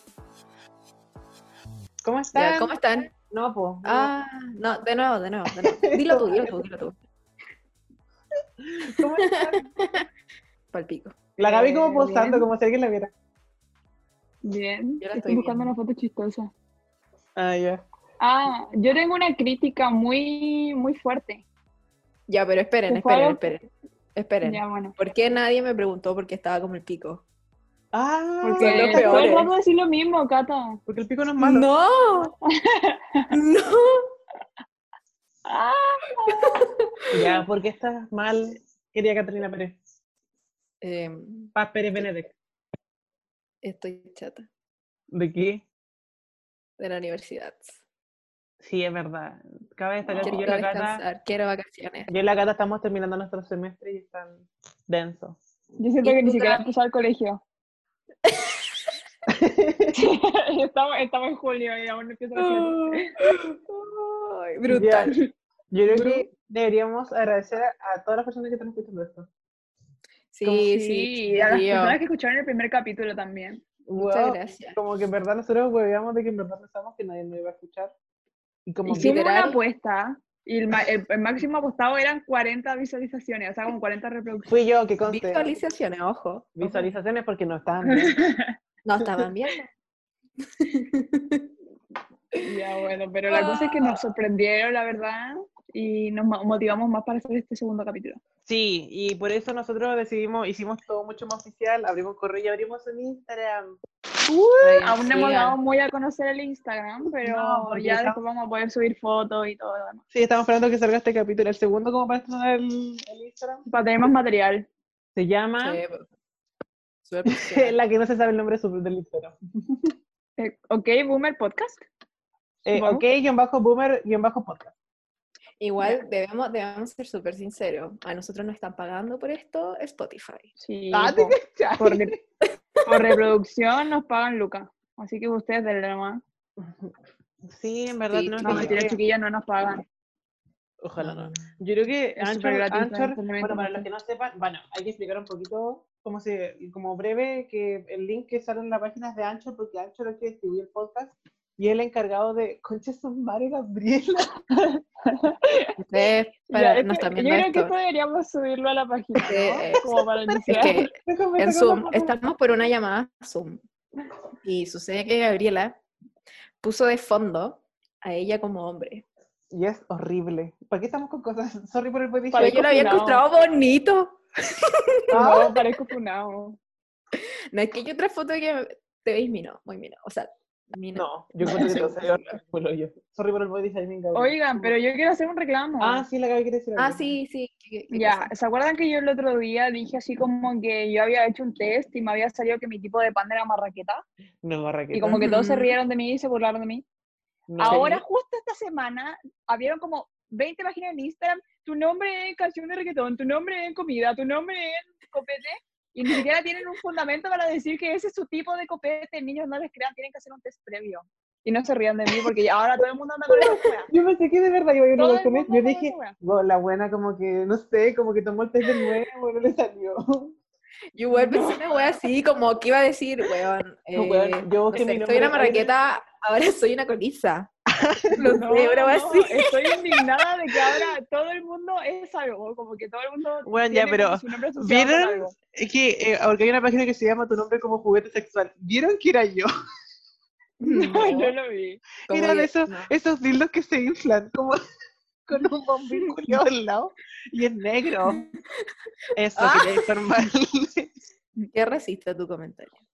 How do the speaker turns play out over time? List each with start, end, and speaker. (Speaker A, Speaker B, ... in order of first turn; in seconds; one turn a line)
Speaker A: 2.0-4.1
Speaker B: 2.3-3.1
Speaker B: 3.8-7.0
Speaker A: 5.5-6.5
Speaker A: 8.6-9.7
Speaker B: 9.0-10.1
Speaker B: 10.7-11.2
Speaker A: 11.4-13.1
Speaker C: 11.4-12.4
Speaker B: 11.8-12.4
Speaker C: 14.4-16.5
Speaker B: 15.0-15.7
Speaker A: 17.4-17.8
Speaker C: 18.2-21.4
Speaker B: 22.3-27.2
Speaker C: 22.9-23.5
Speaker C: 24.4-24.9
Speaker A: 27.9-29.5
Speaker B: 28.4-29.5
Speaker C: 28.6-30.8
Speaker A: 30.9-31.7
Speaker B: 31.4-32.3
Speaker C: 32.6-33.3
Speaker B: 33.3-34.0
Speaker C: 35.5-36.6
Speaker B: 36.3-37.0
Speaker A: 37.1-39.8
Speaker B: 40.8-42.1
Speaker A: 41.5-42.3
Speaker B: 43.6-44.5
Speaker A: 45.1-45.6
Speaker B: 46.8-47.8
Speaker A: 48.6-51.0
Speaker C: 50.1-50.5
Speaker B: 50.2-52.1
Speaker A: 52.1-55.4
Speaker C: 55.8-57.4
Speaker B: 56.0-56.6
Speaker A: 59.3-60.0
Speaker C: 59.9-63.1
Speaker B: 62.4-65.2
Speaker A: 64.7-65.1
Speaker A: 65.7-69.3
Speaker C: 65.9-66.2
Speaker B: 70.3-72.0
Speaker C: 70.4-73.6
Speaker A: 73.9-77.9
Speaker B: 74.0-74.8
Speaker A: 78.7-79.1
Speaker B: 78.8-79.6
Speaker C: 78.9-84.5
Speaker A: 84.5-85.5
Speaker B: 85.0-86.5
Speaker A: 86.5-88.2
Speaker C: 87.9-88.5
Speaker B: 88.8-89.7
Speaker B: 90.6-91.5
Speaker C: 92.4-98.2
Speaker B: 93.3-93.8
Speaker A: 98.5-103.7
Speaker B: 104.6-105.6
Speaker C: 104.8-110.0
Speaker A: 107.2-108.2
Speaker A: 110.1-113.7
Speaker C: 113.7-114.7
Speaker A: 115.1-115.8
Speaker B: 115.6-116.0
Speaker B: 117.0-117.8
Speaker A: 117.3-119.9
Speaker C: 120.4-121.8
Speaker A: 122.6-124.7
Speaker C: 122.7-123.0
Speaker B: 125.6-130.5
Speaker C: 130.6-132.1
Speaker A: 130.9-132.2
Speaker B: 132.8-133.1
Speaker C: 132.8-136.2
Speaker A: 136.6-136.9
Speaker A: 137.4-139.0
Speaker B: 138.1-138.8
Speaker C: 138.4-139.8
Speaker A: 140.8-154.4
Speaker B: 141.0-141.5
Speaker C: 142.2-143.9
Speaker C: 154.5-155.7
Speaker B: 155.8-157.7
Speaker C: 156.5-160.9
Speaker B: 159.2-163.6
Speaker A: 160.6-162.2
Speaker B: 164.4-165.8
Speaker B: 166.6-169.0
Speaker A: 169.5-172.7
Speaker C: 172.3-173.2
Speaker B: 172.4-175.6
Speaker A: 175.1-175.6
Speaker C: 175.1-176.6
Speaker B: 177.5-182.3
Speaker A: 180.9-184.7
Speaker C: 181.4-181.8
Speaker C: 184.1-186.0
Speaker A: 185.8-187.1
Speaker B: 186.8-188.3
Speaker C: 187.9-194.0
Speaker A: 194.4-195.2
Speaker C: 194.9-196.8
Speaker B: 195.2-195.7
Speaker A: 197.5-198.0
Speaker C: 197.6-213.9
Speaker B: 197.7-198.0
Speaker A: 213.3-220.3
Speaker C: 215.0-216.2
Speaker B: 220.9-227.5
Speaker C: 221.1-221.8
Speaker A: 223.9-225.7
Speaker A: 227.7-228.4
Speaker B: 228.1-229.8
Speaker C: 228.2-235.3
Speaker A: 233.5-239.5
Speaker B: 240.6-241.3
Speaker C: 240.7-241.8
Speaker B: 242.1-242.9
Speaker A: 242.1-244.6
Speaker A: 245.2-248.2
Speaker A: 249.2-250.9
Speaker C: 249.4-249.7
Speaker B: 251.5-252.8